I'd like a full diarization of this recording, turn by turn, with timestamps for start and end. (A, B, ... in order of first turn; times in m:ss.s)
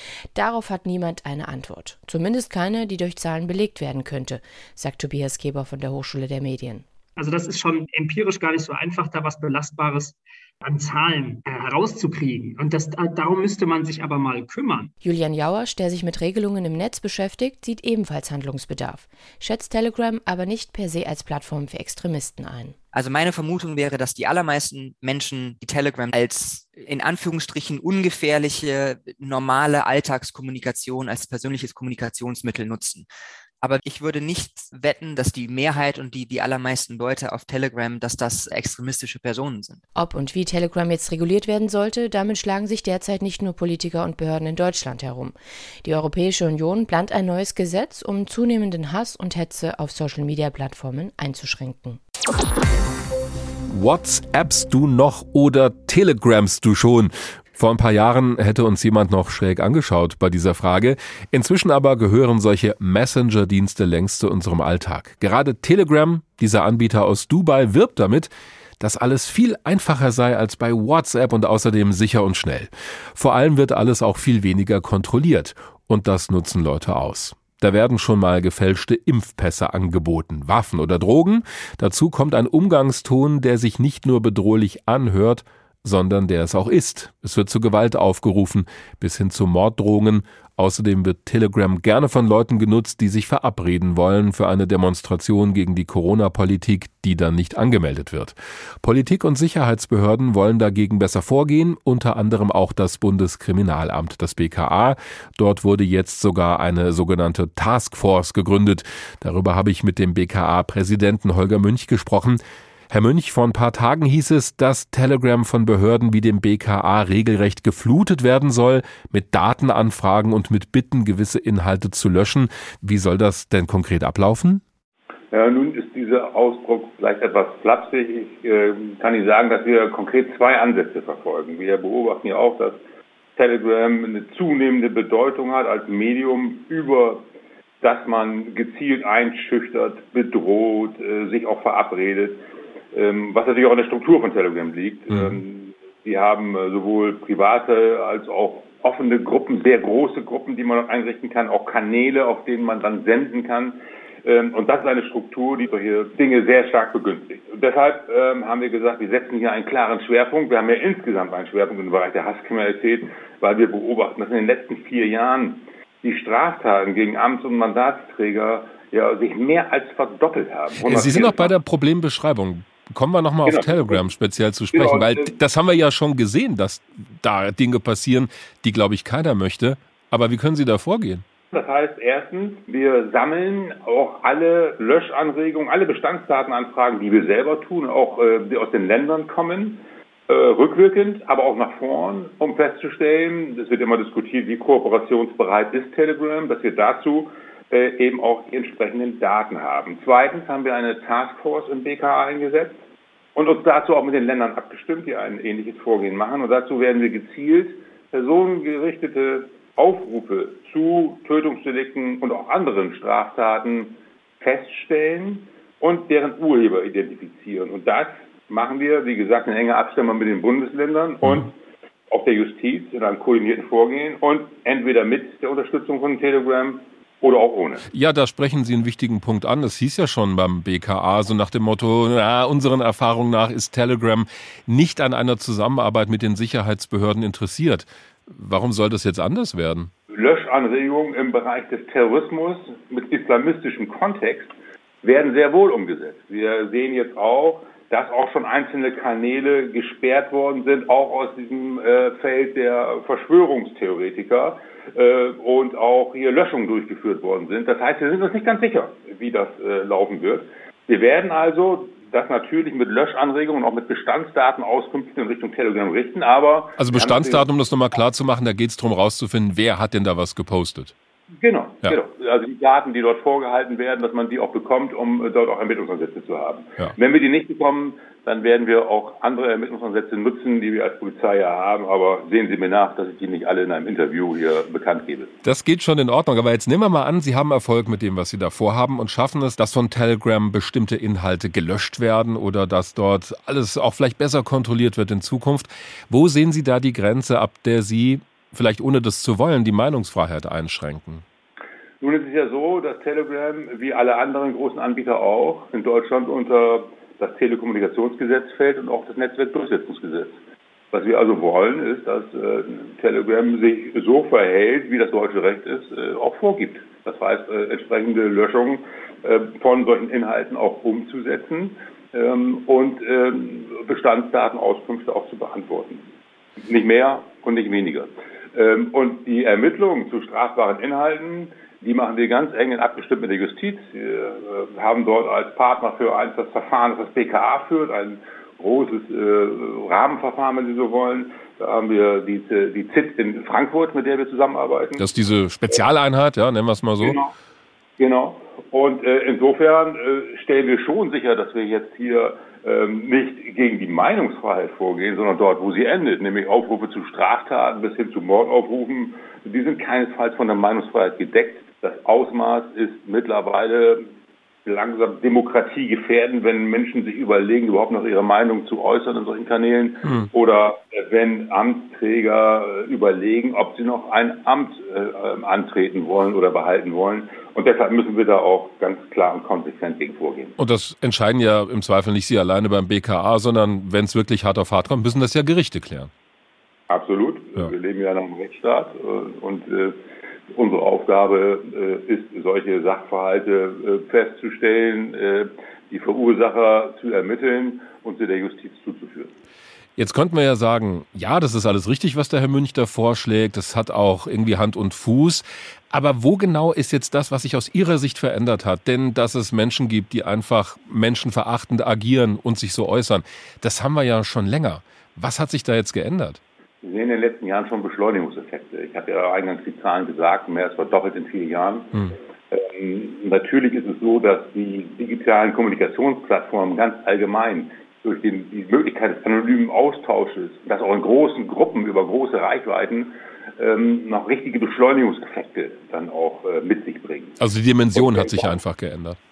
0:00.4-0:06.8 A
0:07.2-0:14.9 B
0:15.0-0:22.8 A
0:22.9-0:33.1 C
0:33.6-0:39.8 C
0:40.0-0:52.0 A
0:53.7-2:04.6 D
2:05.3-2:12.8 E
2:13.4-2:17.3 E
2:17.8-2:22.4 E
2:22.9-2:51.6 E
2:25.1-2:25.4 D
2:50.8-3:01.2 D
2:53.4-2:54.0 E
2:54.7-2:55.4 E
3:01.5-3:22.8 E
3:23.4-3:41.5 E
3:42.1-3:47.8 E
3:47.9-3:59.9 D
4:00.1-4:27.5 E
4:26.8-4:30.9 D
4:31.4-4:45.3 E
4:45.4-5:01.2 D
5:02.0-5:10.4 E
5:10.9-5:26.0 E
5:26.6-5:45.0 E
5:45.0-5:47.2 D
5:47.0-5:47.3 E
5:48.0-6:04.1 E
6:04.6-6:20.5 E
6:20.6-6:26.1 D
6:26.9-6:30.0 E
6:30.5-6:39.4 E
6:40.0-6:56.4 D
6:56.8-7:01.9 E
7:02.5-7:17.4 E
7:17.4-7:19.2 D
7:18.0-7:18.6 E